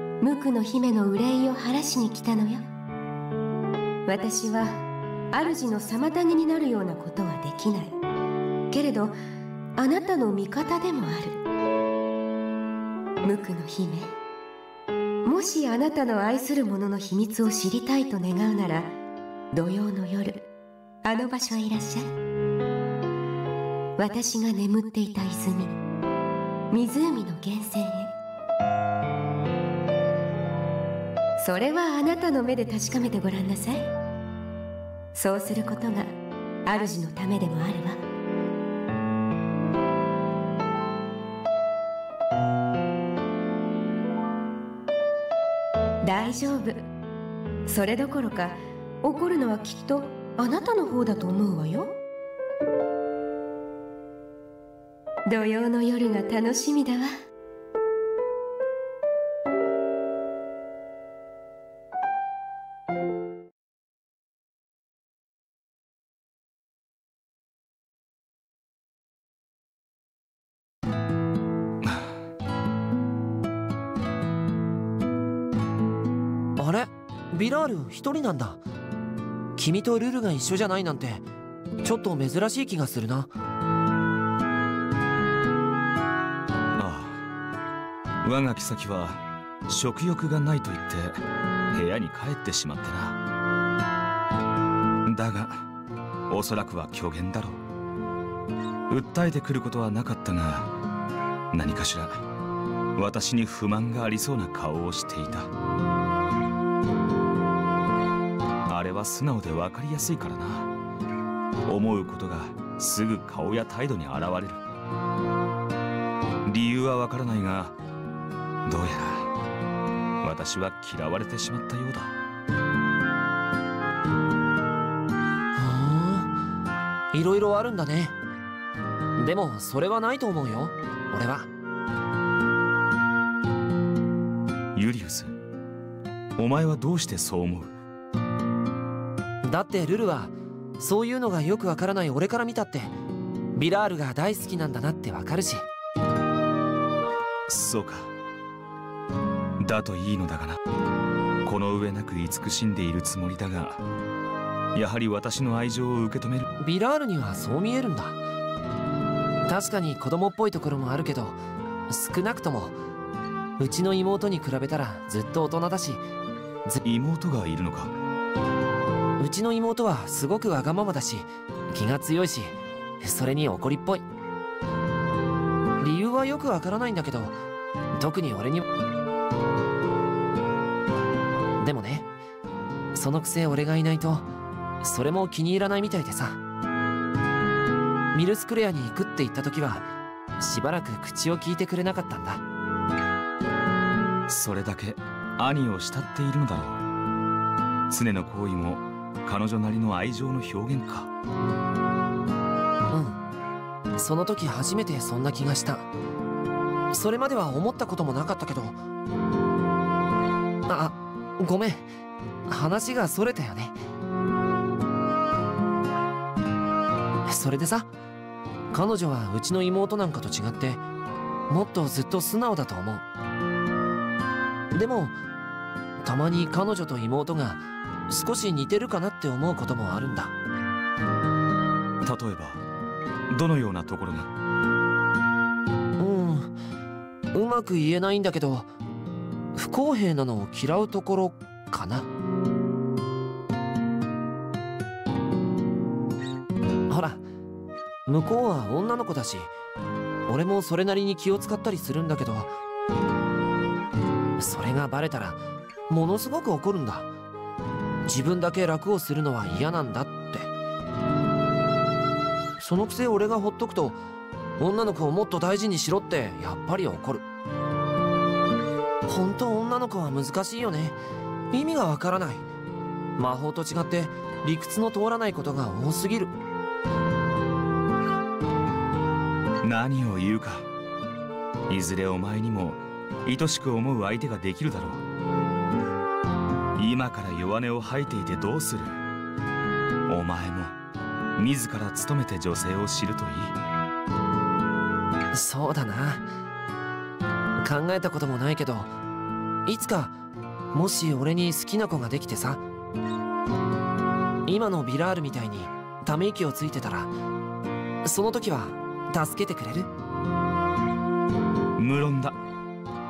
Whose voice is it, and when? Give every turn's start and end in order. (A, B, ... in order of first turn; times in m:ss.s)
0:00.2-0:02.7 A
0:04.1-0:08.0 A
0:08.7-0:09.2 A
0:09.8-0:11.4 A
0:13.2-0:14.2 A
0:15.2-0:18.9 A
0:19.5-0:20.5 A
0:21.0-0:22.1 A
0:24.0-0:25.8 A
0:26.7-0:28.2 A
0:31.4-0:33.9 A
0:35.1-0:36.2 A
0:36.7-0:38.0 A
0:46.0-0:46.9 A
0:47.7-0:52.0 A
0:55.3-0:57.1 A
1:11.8-1:12.1 B
1:16.6-1:18.6 C
1:19.6-1:21.2 C
1:21.8-1:23.3 C
1:26.8-1:27.2 B
1:28.2-1:33.2 B
1:35.0-1:35.7 B
1:36.3-1:37.6 B
1:38.9-1:40.7 B
1:41.5-1:42.2 B
1:43.0-1:45.5 B
1:48.7-1:50.7 B
1:51.7-1:54.6 B
1:56.4-1:57.8 B
1:58.6-1:59.3 B
2:00.2-2:02.2 B
2:05.6-2:06.3 C
2:07.1-2:08.2 C
2:09.2-2:11.5 C
2:14.8-2:15.4 B
2:16.4-2:17.8 B
2:19.4-2:22.9 C
2:23.5-2:25.7 C
2:27.5-2:28.1 B
2:29.6-2:30.6 B
2:31.4-2:33.8 B
2:34.7-2:36.5 B
2:36.6-2:38.2 C
2:39.5-2:42.8 C
2:43.6-2:46.0 C
2:46.8-2:48.0 B
2:49.2-2:54.1 C
2:55.8-2:57.4 C
2:57.9-2:58.6 C
3:01.6-3:02.1 C
3:02.9-3:04.3 C
3:04.8-3:06.4 C
3:08.1-3:09.9 C
3:10.4-3:12.4 C
3:14.3-3:16.8 B
3:17.9-3:21.1 B
3:22.9-3:23.2 C
3:24.0-3:25.9 C
3:26.9-3:28.8 C
3:30.7-3:31.9 C
3:32.5-3:33.8 C
3:37.3-3:37.9 C
3:38.7-3:40.8 C
3:41.5-3:43.0 C
3:44.7-3:45.2 C
3:46.0-3:50.3 C
3:52.0-3:52.7 B
3:53.3-3:54.3 B
3:56.0-3:56.6 C
3:57.3-3:58.7 C
3:59.5-4:02.1 C
4:06.9-4:07.2 C
4:08.1-4:09.5 C
4:10.3-4:12.5 C
4:14.4-4:17.1 C
4:18.1-4:20.5 C
4:22.6-4:24.0 C
4:24.6-4:27.3 C
4:29.1-4:31.0 C
4:31.5-4:32.5 C
4:33.2-4:36.4 C
4:39.6-4:40.7 B
4:41.7-4:45.1 B
4:46.8-4:49.0 B
4:50.1-4:50.8 B
4:51.4-4:53.6 B
4:55.3-4:56.3 C
4:57.6-4:58.9 C
4:59.7-5:00.2 C
5:00.7-5:02.7 C
5:04.5-5:07.1 C
5:08.0-5:09.9 C
5:11.8-5:12.4 B